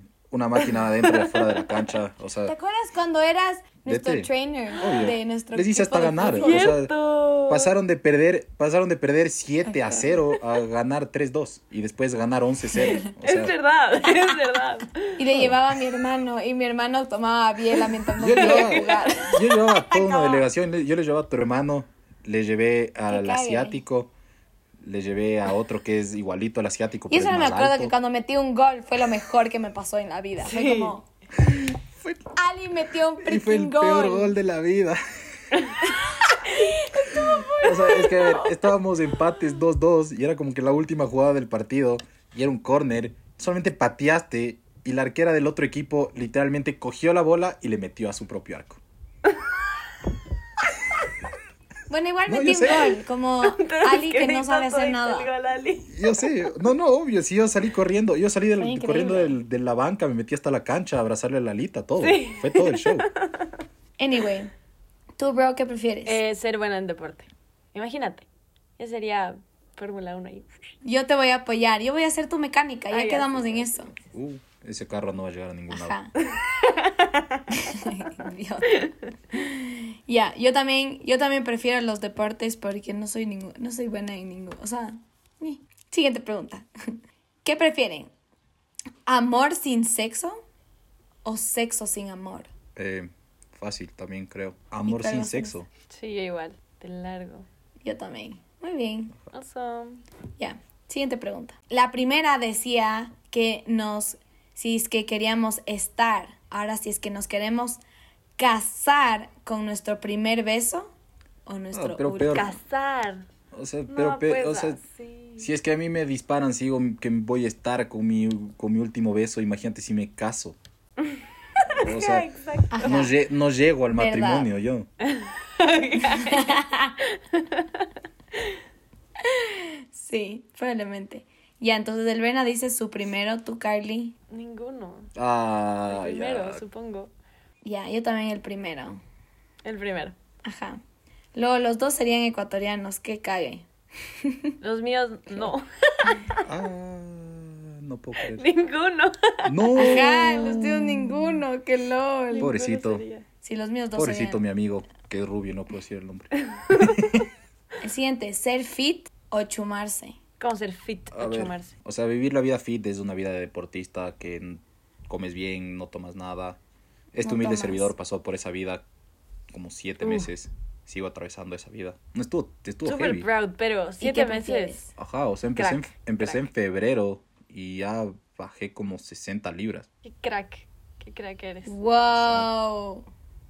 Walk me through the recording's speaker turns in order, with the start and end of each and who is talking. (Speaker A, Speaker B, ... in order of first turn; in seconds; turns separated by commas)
Speaker A: 0.3-2.5, Speaker B: 0.6-1.9, Speaker C: 2.5-6.7, Speaker A: 3.9-6.9, Speaker B: 6.2-7.7, Speaker A: 7.5-13.5, Speaker B: 12.8-15.2, Speaker C: 15.2-20.4, Speaker A: 15.3-15.6, Speaker A: 18.2-24.1, Speaker B: 18.2-19.4, Speaker C: 23.1-23.8, Speaker A: 24.8-27.9, Speaker C: 27.1-31.1, Speaker B: 30.4-30.9, Speaker A: 31.5-32.3, Speaker C: 32.4-34.3, Speaker A: 33.2-35.0, Speaker B: 36.4-38.5, Speaker A: 37.1-48.8, Speaker C: 37.2-37.5, Speaker C: 51.9-55.3, Speaker A: 52.3-53.0, Speaker B: 53.4-56.3, Speaker A: 55.9-63.1, Speaker C: 58.6-59.4, Speaker B: 62.0-63.5, Speaker C: 64.0-64.5, Speaker C: 65.2-66.2, Speaker B: 66.0-68.2, Speaker B: 68.8-70.5, Speaker C: 70.8-73.9, Speaker B: 72.9-73.9, Speaker A: 74.0-76.0, Speaker C: 75.7-76.1, Speaker B: 76.3-77.9, Speaker C: 77.6-88.1, Speaker C: 89.0-90.4, Speaker C: 91.2-92.5, Speaker A: 92.8-95.7, Speaker C: 94.9-95.5, Speaker B: 95.9-97.5, Speaker C: 97.8-99.1, Speaker B: 99.3-100.0, Speaker C: 100.4-107.8, Speaker C: 108.4-110.9, Speaker C: 111.5-112.5, Speaker A: 111.7-112.5, Speaker B: 112.2-113.2, Speaker A: 113.5-114.8, Speaker B: 113.9-115.5, Speaker A: 115.4-120.6, Speaker B: 121.6-123.1, Speaker A: 121.7-122.3, Speaker C: 122.7-123.1, Speaker A: 122.8-124.9, Speaker C: 123.9-124.5, Speaker B: 125.0-127.8, Speaker C: 126.1-127.0, Speaker C: 129.2-134.1, Speaker B: 134.3-135.1, Speaker A: 135.1-136.6, Speaker B: 135.9-137.1, Speaker C: 137.6-139.0, Speaker B: 139.6-140.2, Speaker C: 140.4-140.8, Speaker C: 141.3-143.7, Speaker C: 144.2-144.5, Speaker B: 144.6-146.4, Speaker A: 146.4-148.4, Speaker B: 148.2-150.6, Speaker A: 149.4-151.0, Speaker C: 149.8-152.5, Speaker B: 152.3-153.2, Speaker A: 152.4-153.0, Speaker C: 153.4-154.4, Speaker A: 153.9-157.2, Speaker B: 156.5-157.2, Speaker C: 157.8-160.2, Speaker B: 160.4-161.7, Speaker A: 161.1-166.6, Speaker A: 167.1-168.8, Speaker C: 167.2-167.9, Speaker A: 169.5-173.3, Speaker B: 170.0-170.3, Speaker B: 172.8-174.8, Speaker C: 174.0-174.9, Speaker A: 174.9-179.9, Speaker B: 175.5-176.5, Speaker B: 180.0-181.7, Speaker C: 181.7-183.0, Speaker A: 182.2-182.5